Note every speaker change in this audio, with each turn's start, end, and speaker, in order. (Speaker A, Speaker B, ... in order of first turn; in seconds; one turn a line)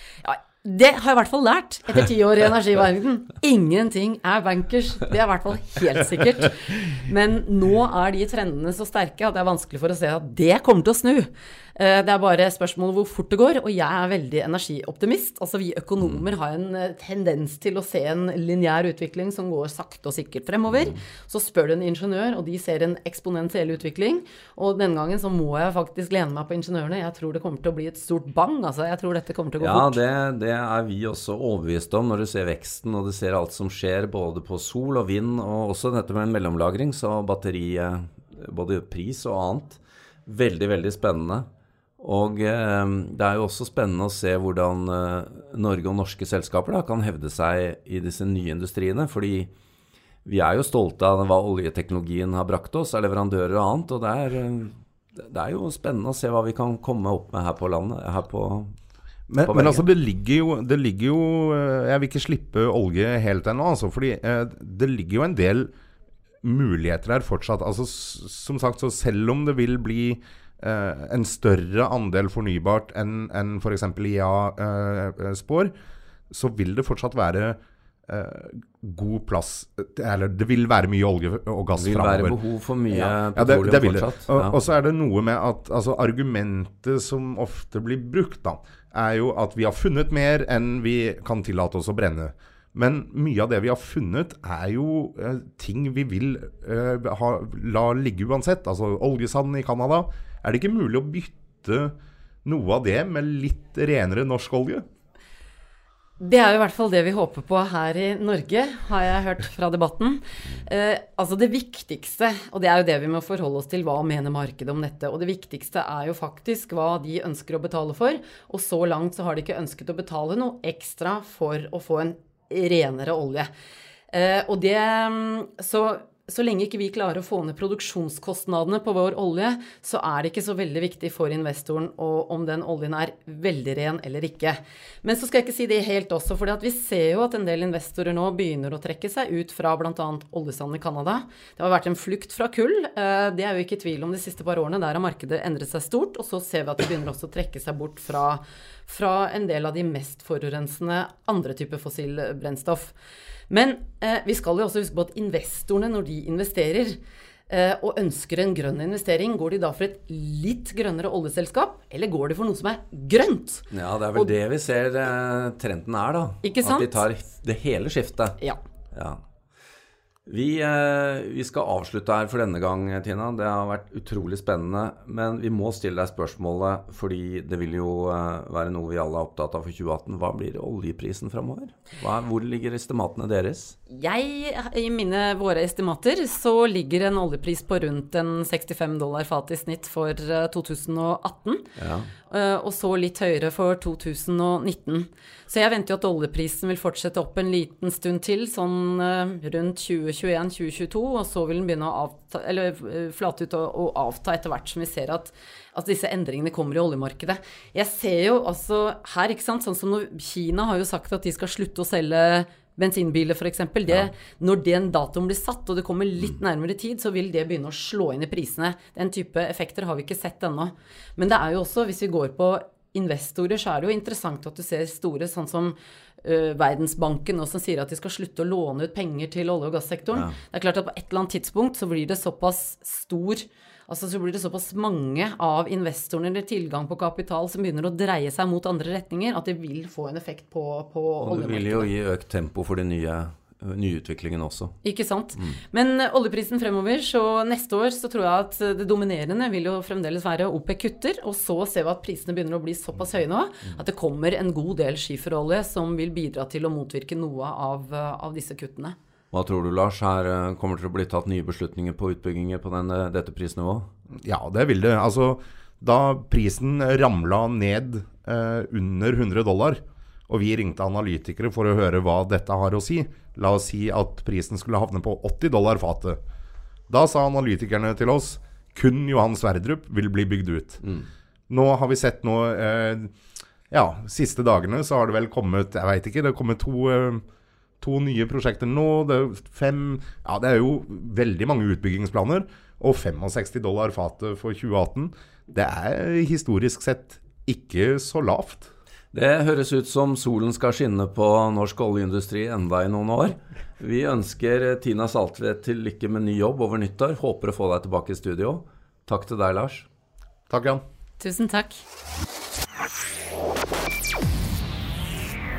Speaker A: 0.2-30.0
Speaker B: 29.6-41.5
Speaker B: 42.0-49.5
Speaker B: 50.2-58.7
Speaker C: 59.3-65.7
Speaker B: 59.4-59.8
Speaker C: 66.4-75.7
Speaker C: 76.3-82.3
Speaker B: 81.8-84.5
Speaker C: 82.9-101.9
Speaker C: 102.4-104.8
Speaker A: 106.2-123.5
Speaker A: 124.1-152.9
Speaker A: 153.5-157.0
Speaker A: 157.5-164.3
Speaker B: 163.7-168.4
Speaker A: 166.4-167.0
Speaker B: 168.9-169.2
Speaker B: 170.2-183.8
Speaker A: 183.9-191.7
Speaker B: 191.8-192.1
Speaker A: 192.3-241.9
Speaker B: 241.2-244.8
Speaker A: 244.8-258.9
Speaker B: 259.3-263.9
Speaker C: 264.2-276.2
Speaker C: 276.9-280.8
Speaker C: 281.5-283.1
Speaker C: 283.7-287.2
Speaker C: 287.8-298.7
Speaker B: 299.1-309.9
Speaker C: 310.5-310.8
Speaker A: 311.2-311.8